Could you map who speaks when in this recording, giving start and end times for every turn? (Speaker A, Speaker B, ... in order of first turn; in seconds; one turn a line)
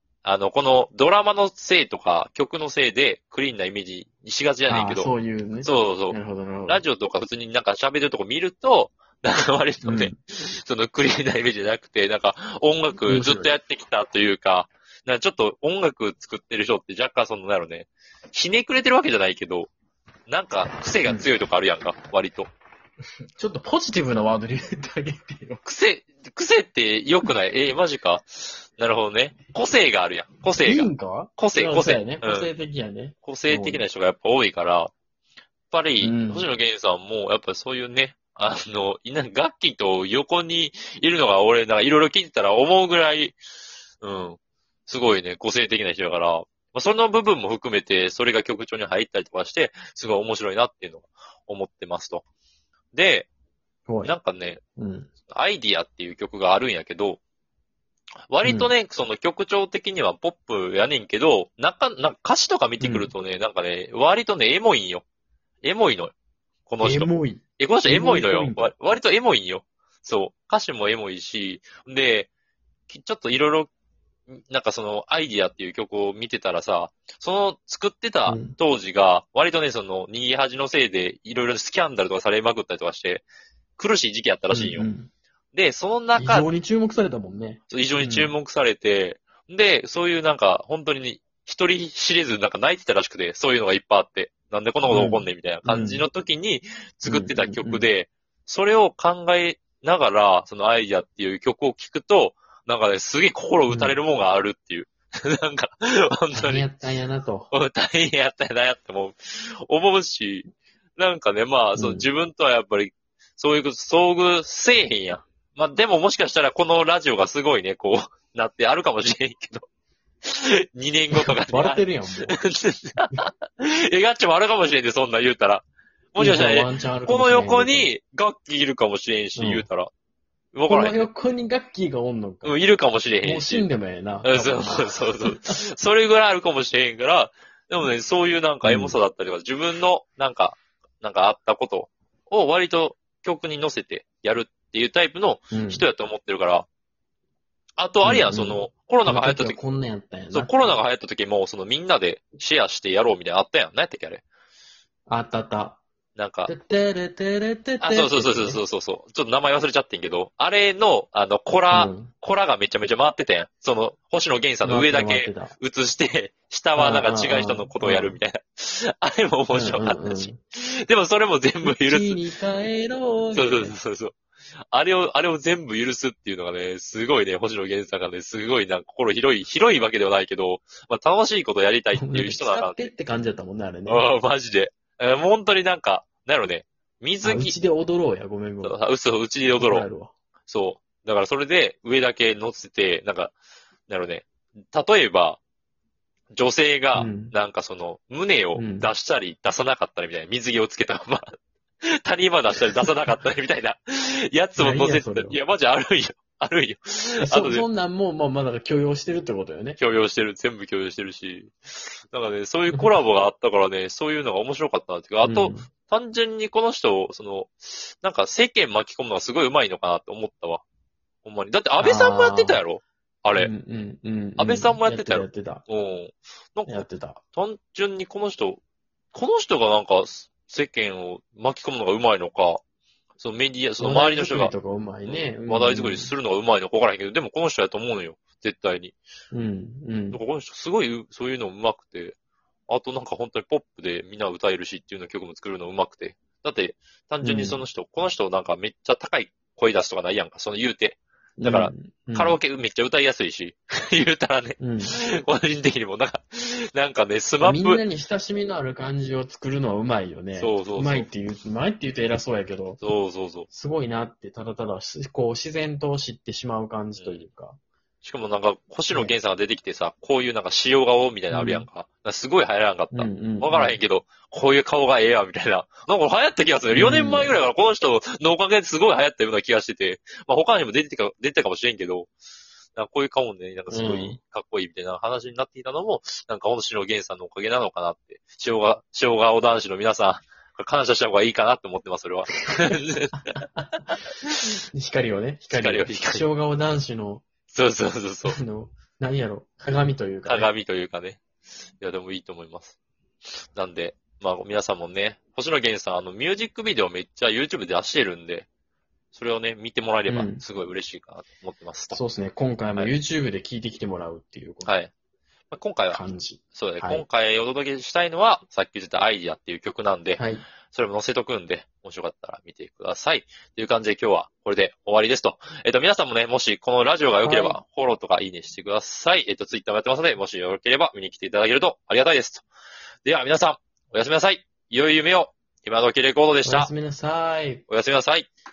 Speaker A: 0.2-19.7
Speaker B: 4.7-6.8
Speaker B: 9.8-10.1
Speaker B: 13.0-13.5
Speaker A: 20.3-22.5
Speaker B: 23.4-25.6
Speaker A: 25.6-32.5
Speaker B: 30.6-33.8
Speaker A: 33.2-34.9
Speaker A: 35.7-43.4
Speaker B: 36.0-36.5
Speaker A: 44.0-52.2
Speaker A: 52.9-53.3
Speaker B: 53.9-54.1
Speaker A: 54.0-54.6
Speaker B: 54.8-55.1
Speaker A: 55.3-57.2
Speaker A: 58.3-65.0
Speaker B: 58.4-58.7
Speaker B: 62.8-63.1
Speaker A: 65.6-66.1
Speaker A: 66.7-72.3
Speaker B: 66.8-68.7
Speaker A: 72.9-73.7
Speaker A: 74.3-83.2
Speaker B: 78.2-78.5
Speaker A: 83.8-84.9
Speaker B: 84.5-85.1
Speaker A: 85.5-86.5
Speaker B: 86.1-88.3
Speaker A: 87.7-106.7
Speaker B: 94.9-96.0
Speaker B: 97.0-97.8
Speaker B: 103.7-104.0
Speaker B: 106.3-107.5
Speaker A: 107.5-119.7
Speaker B: 111.8-112.1
Speaker A: 120.2-129.9
Speaker B: 121.1-122.4
Speaker B: 126.2-127.9
Speaker B: 129.3-129.7
Speaker A: 130.5-131.1
Speaker B: 130.7-132.6
Speaker A: 132.4-133.7
Speaker B: 133.2-135.6
Speaker A: 134.2-146.7
Speaker B: 138.6-139.0
Speaker B: 145.5-145.8
Speaker A: 147.8-149.6
Speaker B: 148.0-150.7
Speaker A: 150.3-154.2
Speaker B: 155.1-155.8
Speaker A: 156.2-156.5
Speaker B: 156.5-158.6
Speaker A: 157.8-172.2
Speaker B: 161.7-162.1
Speaker B: 164.6-165.5
Speaker B: 166.8-168.2
Speaker B: 169.5-170.4
Speaker B: 171.6-173.8
Speaker A: 173.3-174.2
Speaker A: 174.7-182.9
Speaker B: 181.9-184.0
Speaker A: 183.8-187.6
Speaker B: 187.2-188.8
Speaker A: 188.6-189.9
Speaker B: 189.5-190.1
Speaker A: 190.5-193.3
Speaker A: 193.9-195.4
Speaker A: 196.3-201.3
Speaker B: 196.9-197.3
Speaker B: 198.5-198.9
Speaker A: 201.9-207.7
Speaker B: 204.6-205.4
Speaker B: 207.2-209.8
Speaker A: 209.8-220.6
Speaker B: 215.2-215.7
Speaker A: 221.2-223.5
Speaker B: 221.8-222.6
Speaker B: 223.3-225.6
Speaker A: 224.4-228.6
Speaker B: 226.7-227.2
Speaker A: 229.1-232.6
Speaker A: 233.2-234.5
Speaker B: 233.8-236.1
Speaker A: 235.0-238.9
Speaker B: 239.3-240.2
Speaker A: 240.1-242.2
Speaker A: 242.7-257.8
Speaker B: 247.2-247.6
Speaker B: 251.4-252.4
Speaker B: 254.6-254.9
Speaker B: 257.4-262.8
Speaker A: 260.4-261.1
Speaker A: 262.8-263.5
Speaker B: 263.5-267.6
Speaker A: 266.9-267.2
Speaker A: 268.0-282.1
Speaker B: 271.3-271.7
Speaker B: 272.9-273.8
Speaker B: 276.7-277.3
Speaker A: 282.7-293.3
Speaker B: 283.7-284.2
Speaker B: 294.7-297.2
Speaker A: 295.5-296.2
Speaker A: 297.5-298.4
Speaker B: 298.3-300.5
Speaker A: 300.2-301.2
Speaker A: 301.8-302.8
Speaker A: 303.5-308.5
Speaker A: 309.1-312.0
Speaker B: 310.1-310.4
Speaker B: 311.9-314.7
Speaker A: 314.6-314.9
Speaker A: 315.5-316.0
Speaker B: 315.9-317.0
Speaker A: 316.5-332.4
Speaker B: 320.2-320.4
Speaker B: 327.2-327.6
Speaker A: 333.0-336.7
Speaker B: 336.4-337.6
Speaker A: 337.7-338.3